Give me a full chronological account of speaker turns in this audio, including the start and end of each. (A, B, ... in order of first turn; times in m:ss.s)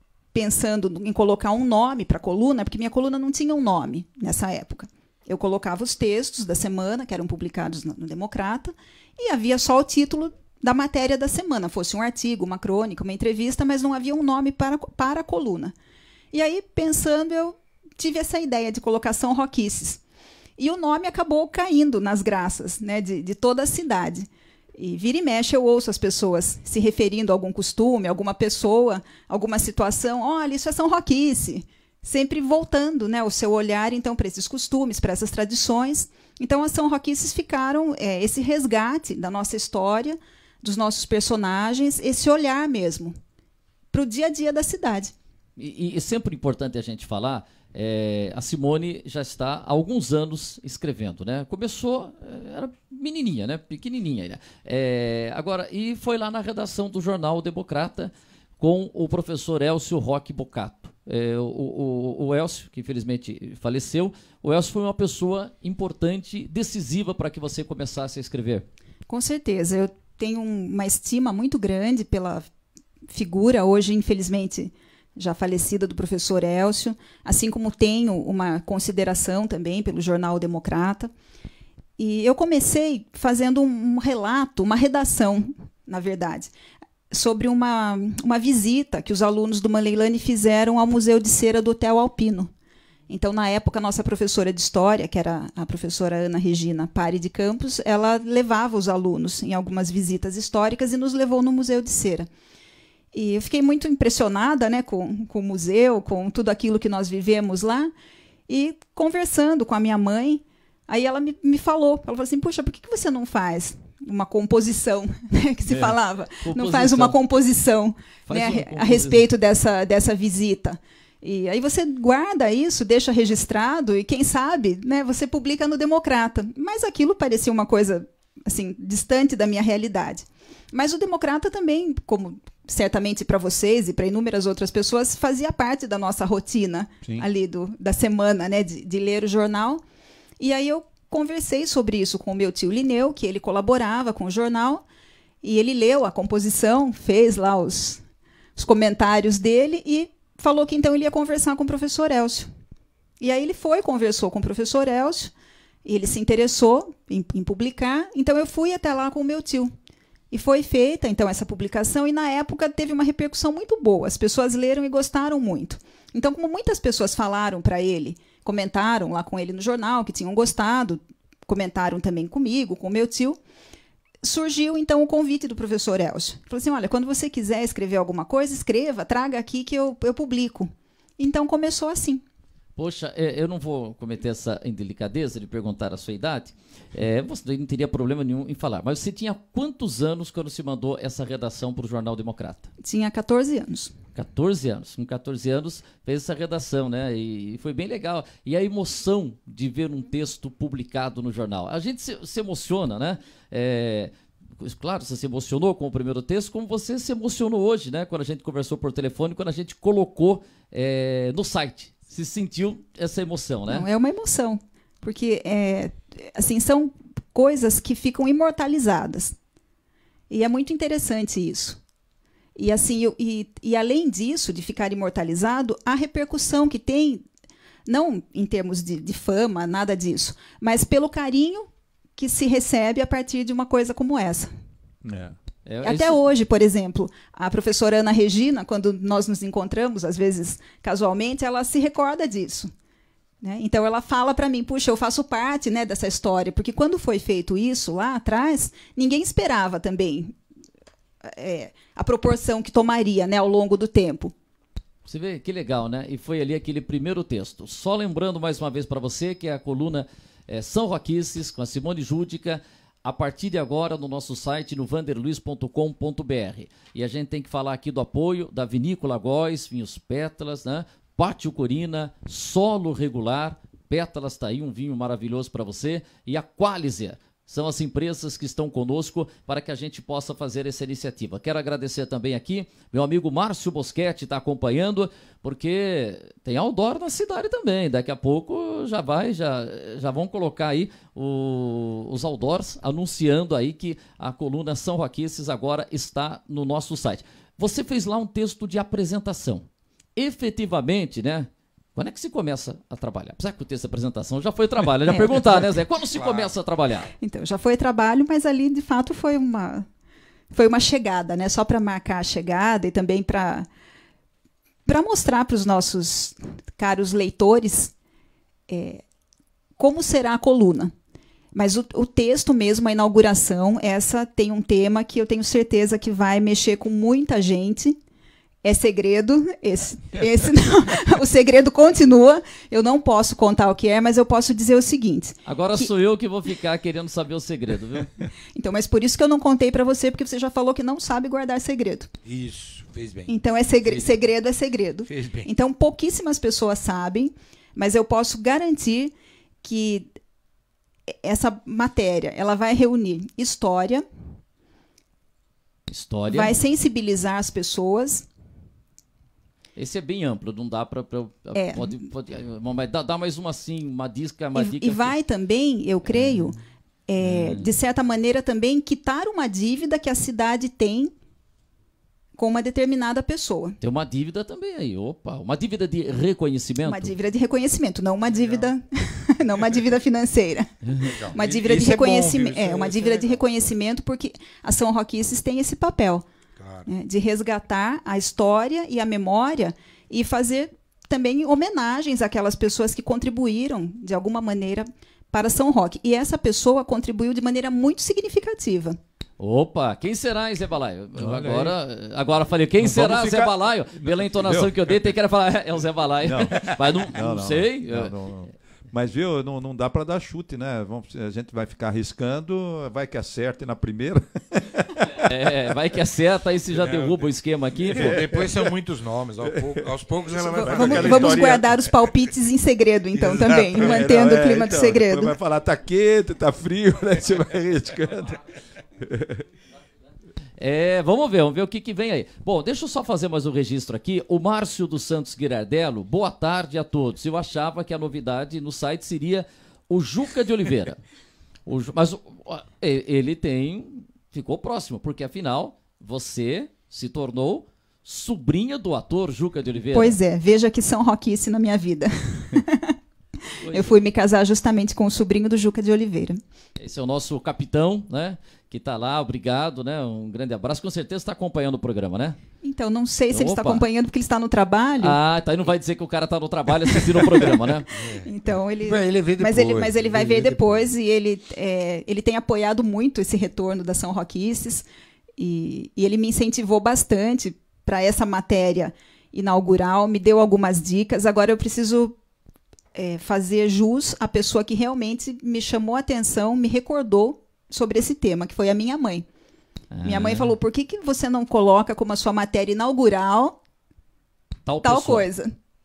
0:00.3-0:15.7 A
0:16.3-0:20.0 A
0:20.6-0:43.2 A
0:43.9-0:45.1 A
0:45.6-1:08.7 B
1:09.1-1:12.5 A
1:13.1-1:21.1 A
1:22.0-1:26.5 A
1:27.1-1:32.5 A
1:33.1-1:42.3 A
1:43.1-1:47.9 A
1:48.5-2:19.8 A
1:55.7-1:56.0 C
1:56.4-1:57.2 B
1:58.3-1:59.2 B
2:20.4-2:24.8 A
2:25.4-2:28.0 A
2:28.6-2:32.5 A
2:33.2-2:35.3 A
2:35.8-2:39.7 A
2:40.3-2:53.4 A
2:54.2-3:02.2 A
3:02.8-3:12.7 B
3:12.8-3:14.0 A
3:14.2-3:33.9 B
3:33.7-3:39.4 A
3:40.3-3:41.8 A
3:42.6-3:47.2 A
3:47.9-3:54.5 A
3:55.0-3:55.4 C
3:55.7-3:56.2 B
3:55.8-4:02.7 A
4:03.4-4:10.4 A
4:11.2-4:14.3 A
4:15.1-5:07.1 B
5:05.1-5:05.7 A
5:06.1-5:06.5 D
5:07.2-5:09.9 A
5:10.5-5:13.7 A
5:14.9-5:17.9 A
5:18.7-5:19.0 A
5:19.8-5:20.9 A
5:21.5-5:28.0 A
5:28.6-5:35.9 A
5:35.5-5:38.1 B
5:38.6-5:42.1 A
5:42.2-5:43.3 D
5:43.3-5:50.1 A
5:43.8-5:44.1 D
5:45.1-5:45.5 D
5:51.1-5:54.1 A
5:55.9-5:56.5 B
5:56.3-5:58.3 A
5:59.8-6:05.1 B
6:01.6-6:02.0 A
6:04.6-6:11.1 A
6:06.0-6:06.5 B
6:07.2-6:07.7 B
6:12.4-6:13.8 A
6:13.8-6:17.1 B
6:16.8-6:20.7 A
6:18.3-6:18.7 D
6:21.0-6:23.4 D
6:21.3-6:26.3 A
6:26.6-6:26.9 D
6:26.9-6:39.0 A
6:39.4-6:48.1 B
6:41.2-6:41.8 C
6:42.8-6:45.0 C
6:46.2-6:55.3 C
6:55.2-6:58.2 B
6:56.7-6:57.3 D
6:57.8-7:01.6 D
6:58.0-6:58.7 C
6:59.5-6:59.9 C
7:00.4-7:05.3 A
7:00.5-7:01.8 C
7:03.2-7:04.2 D
7:03.7-7:08.4 C
7:09.0-7:09.4 C
7:10.6-7:21.0 B
7:21.7-7:30.2 B
7:29.9-7:33.0 A
7:33.6-7:34.0 B
7:33.7-7:36.4 A
7:36.8-7:42.4 B
7:42.6-7:45.2 A
7:43.3-7:43.8 B
7:45.0-7:47.9 B
7:47.9-7:50.9 D
7:48.2-7:54.9 A
7:55.4-8:02.2 A
8:03.0-8:09.2 A
8:09.9-8:10.6 B
8:10.0-8:13.6 A
8:14.7-8:15.3 B
8:14.8-8:15.5 A